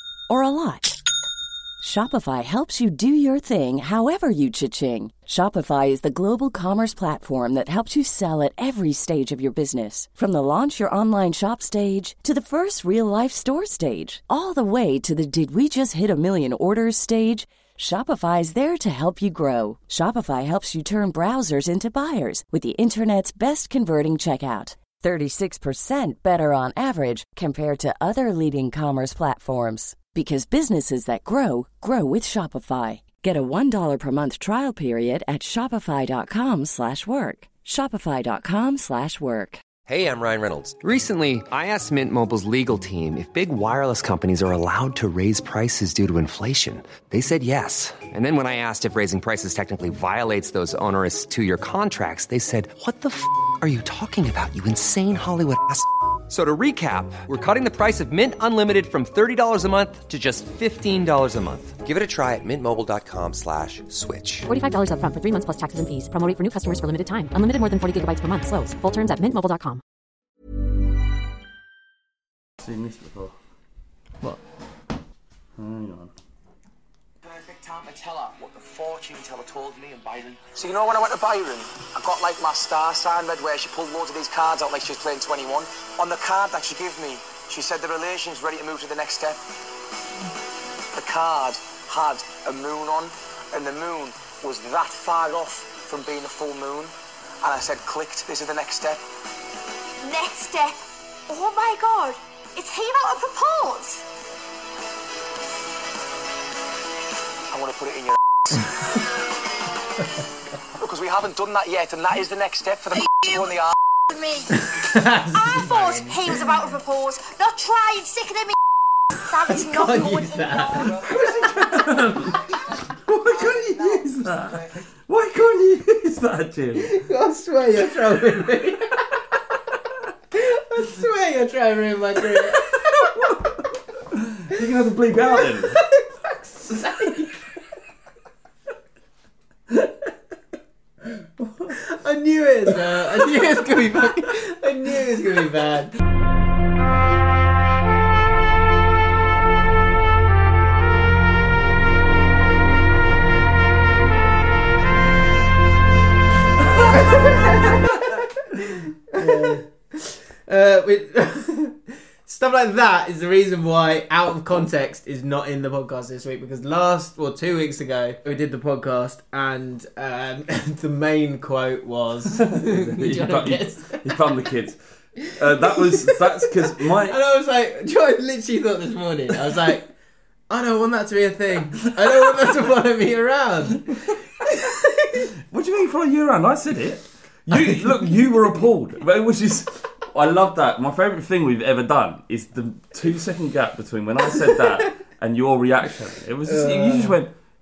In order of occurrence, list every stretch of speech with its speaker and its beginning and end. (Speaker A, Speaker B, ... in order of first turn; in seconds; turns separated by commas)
Speaker A: 0.3-1.0, Speaker A: 1.8-39.6, Speaker B: 39.9-64.5, Speaker C: 64.5-69.8, Speaker D: 72.6-73.3, Speaker D: 75.6-76.1, Speaker E: 77.2-89.4, Speaker E: 90.9-99.0, Speaker F: 100.0-104.1, Speaker E: 107.5-108.8, Speaker E: 110.8-113.7, Speaker F: 113.1-113.4, Speaker F: 114.1-114.6, Speaker G: 114.6-116.2, Speaker F: 115.3-118.6, Speaker F: 119.2-121.5, Speaker G: 119.5-121.8, Speaker D: 121.0-126.9, Speaker G: 126.8-129.1, Speaker G: 130.3-133.1, Speaker D: 132.3-133.4, Speaker D: 134.1-135.8, Speaker G: 135.3-137.4, Speaker D: 141.4-141.7, Speaker G: 141.7-145.9, Speaker G: 156.8-158.2, Speaker G: 159.1-174.2, Speaker D: 159.2-159.5, Speaker D: 172.4-177.2, Speaker G: 175.3-179.9, Speaker G: 180.5-185.3, Speaker D: 182.1-182.4, Speaker D: 185.5-197.3, Speaker G: 196.4-197.2